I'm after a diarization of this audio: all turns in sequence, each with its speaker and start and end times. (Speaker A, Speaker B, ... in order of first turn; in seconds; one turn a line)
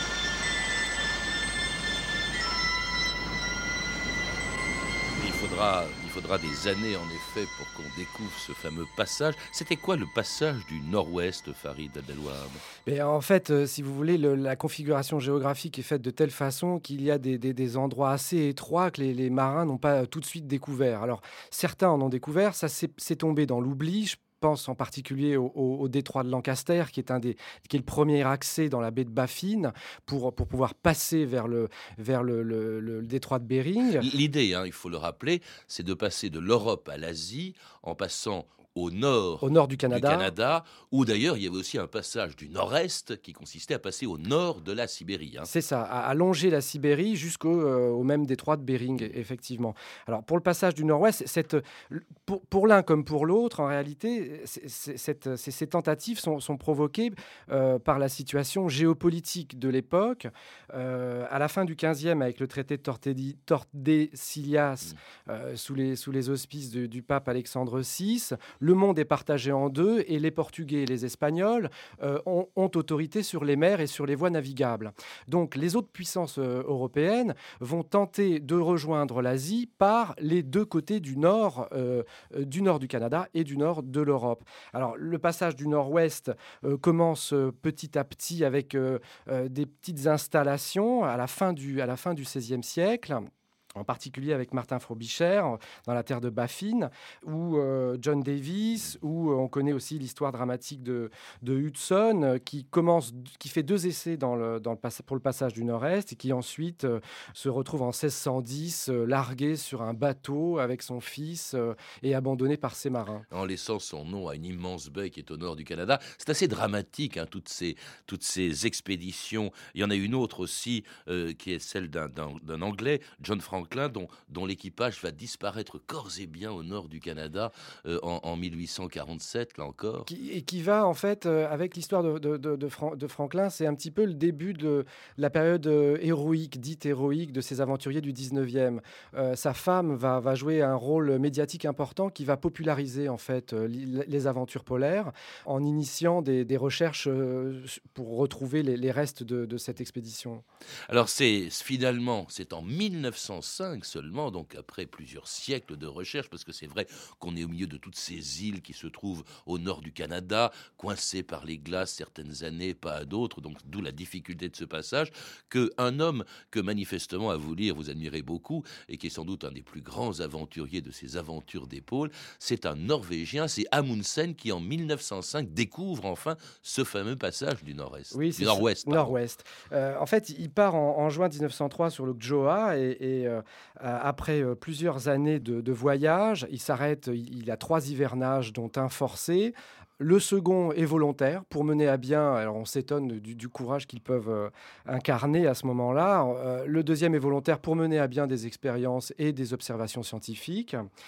Speaker A: 5.1-12.6
Speaker B: 12.8-34.0
Speaker A: 34.0-45.5
Speaker B: 39.4-40.3
Speaker B: 45.5-113.2
Speaker A: 113.3-130.1
Speaker B: 130.1-150.4
Speaker A: 150.9-179.2
Speaker B: 178.1-200.8